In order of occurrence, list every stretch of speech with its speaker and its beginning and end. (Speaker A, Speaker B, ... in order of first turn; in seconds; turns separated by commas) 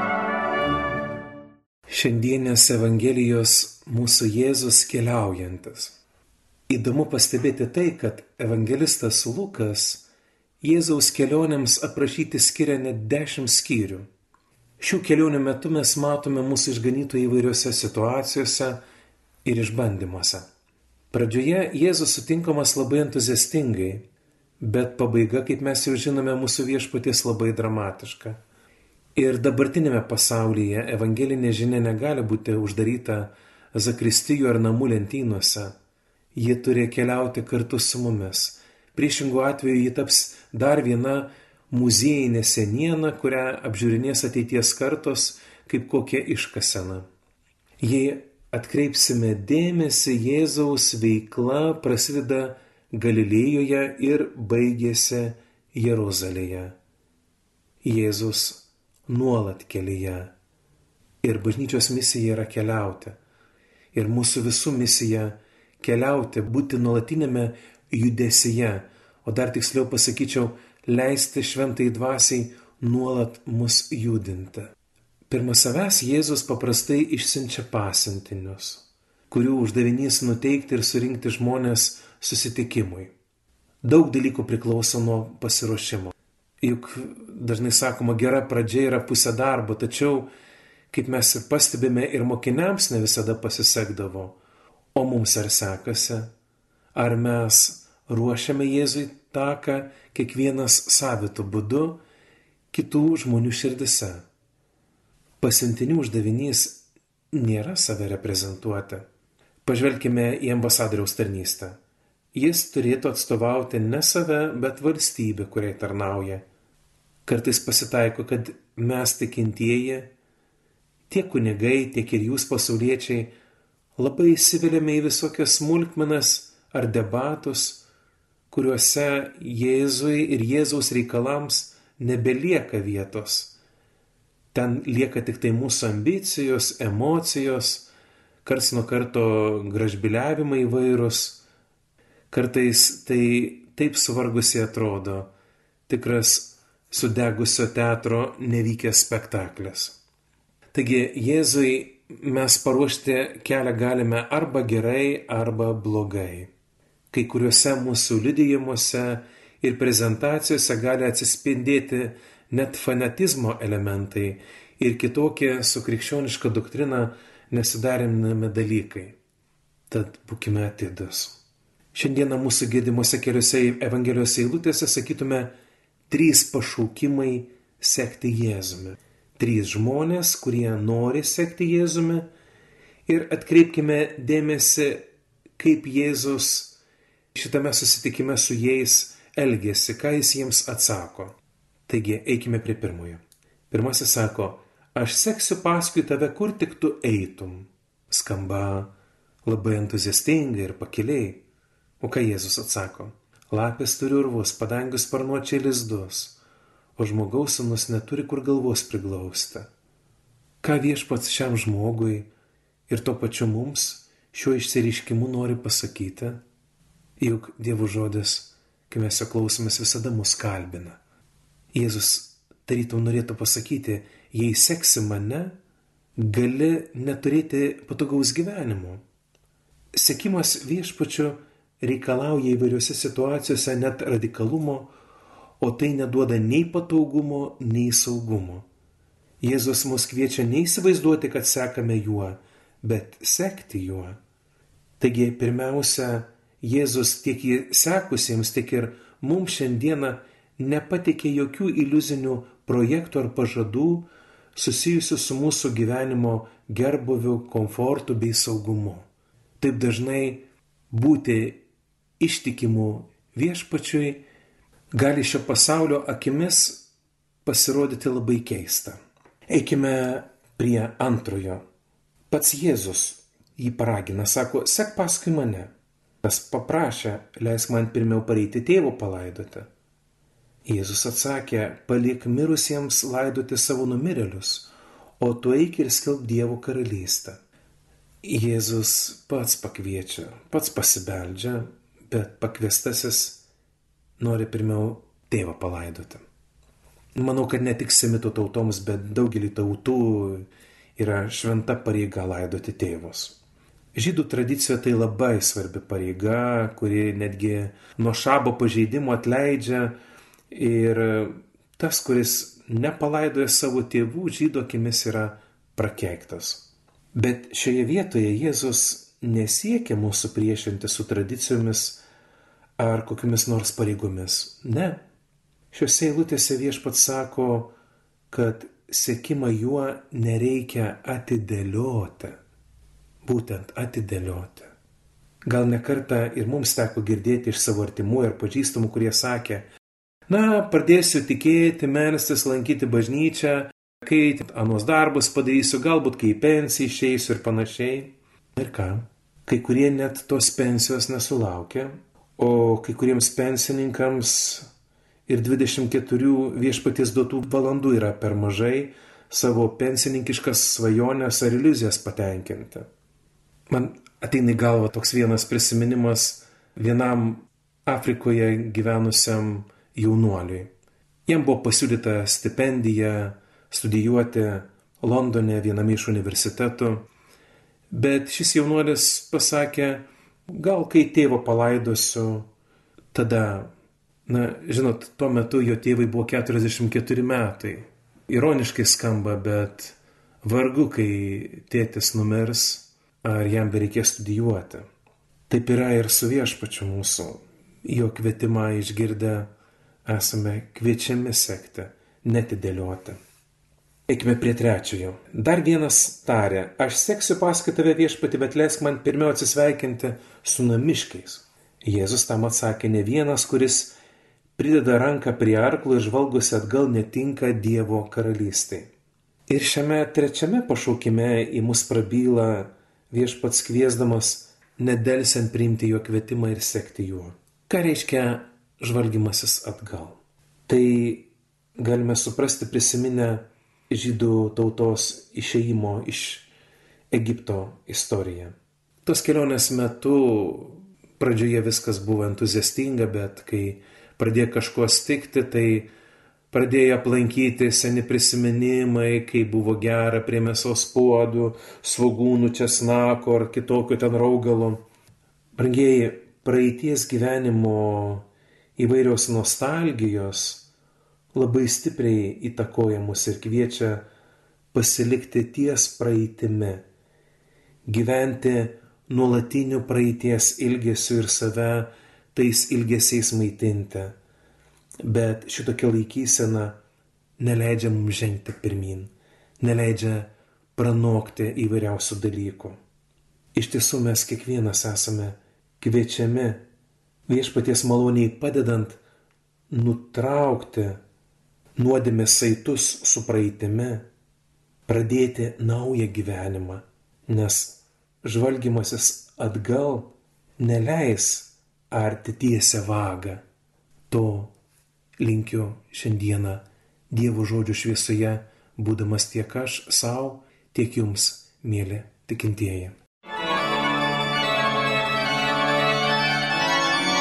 Speaker A: 1.9-6.0, Speaker A: 6.7-10.1, Speaker A: 10.6-14.1, Speaker A: 14.8-18.8, Speaker A: 19.4-20.5, Speaker A: 21.1-24.1, Speaker A: 24.6-28.4, Speaker A: 29.2-35.8, Speaker A: 36.3-47.0, Speaker A: 47.8-56.8, Speaker A: 57.8-60.3, Speaker A: 61.2-63.2, Speaker A: 63.9-74.7, Speaker A: 75.3-83.1, Speaker A: 83.8-90.3, Speaker A: 90.9-94.4, Speaker A: 94.9-96.3, Speaker A: 96.9-102.0, Speaker A: 102.7-104.3, Speaker A: 105.4-109.0, Speaker A: 109.6-111.8, Speaker A: 112.3-116.5, Speaker A: 117.2-120.1, Speaker A: 121.1-123.3, Speaker A: 124.0-127.9, Speaker A: 128.5-133.6, Speaker A: 134.5-137.9, Speaker A: 138.4-141.4, Speaker A: 142.3-145.3, Speaker A: 145.9-150.0, Speaker A: 150.7-156.5, Speaker A: 157.1-169.2, Speaker A: 169.9-171.4, Speaker A: 171.9-175.5, Speaker A: 176.1-182.3, Speaker A: 183.1-186.8, Speaker A: 187.3-191.3, Speaker A: 191.9-201.4, Speaker A: 202.0-206.4, Speaker A: 207.0-209.7, Speaker A: 210.6-212.3, Speaker A: 212.9-216.4, Speaker A: 217.2-221.0, Speaker A: 221.7-225.6, Speaker A: 226.2-229.0, Speaker A: 229.9-234.9, Speaker A: 235.6-238.7, Speaker A: 239.4-244.2, Speaker A: 245.0-259.1, Speaker A: 259.6-261.6, Speaker A: 262.2-264.2, Speaker A: 264.9-266.9, Speaker A: 267.4-271.6, Speaker A: 272.3-275.7, Speaker A: 276.2-279.7, Speaker A: 280.6-287.4, Speaker A: 288.2-293.5, Speaker A: 294.2-296.2, Speaker A: 297.1-303.4, Speaker A: 303.9-310.0, Speaker A: 310.5-322.0, Speaker A: 322.8-325.0, Speaker A: 325.7-327.7, Speaker A: 328.3-332.4, Speaker A: 333.2-334.7, Speaker A: 335.4-339.7, Speaker A: 340.3-354.7, Speaker A: 355.3-362.9, Speaker A: 363.7-370.7, Speaker A: 371.3-377.1, Speaker A: 377.9-382.5, Speaker A: 383.1-383.7, Speaker A: 384.3-394.9, Speaker A: 395.5-399.5, Speaker A: 400.1-403.2, Speaker A: 404.1-414.0, Speaker A: 414.6-418.9, Speaker A: 419.5-436.5, Speaker A: 437.1-445.9, Speaker A: 446.5-454.8, Speaker A: 455.6-460.7, Speaker A: 461.3-464.1, Speaker A: 464.7-466.8, Speaker A: 467.9-474.2, Speaker A: 475.0-476.8, Speaker A: 477.4-482.8, Speaker A: 483.6-486.6, Speaker A: 487.3-489.0, Speaker A: 489.7-491.0, Speaker A: 491.8-494.1, Speaker A: 494.9-503.4, Speaker A: 504.1-504.6, Speaker A: 505.2-513.0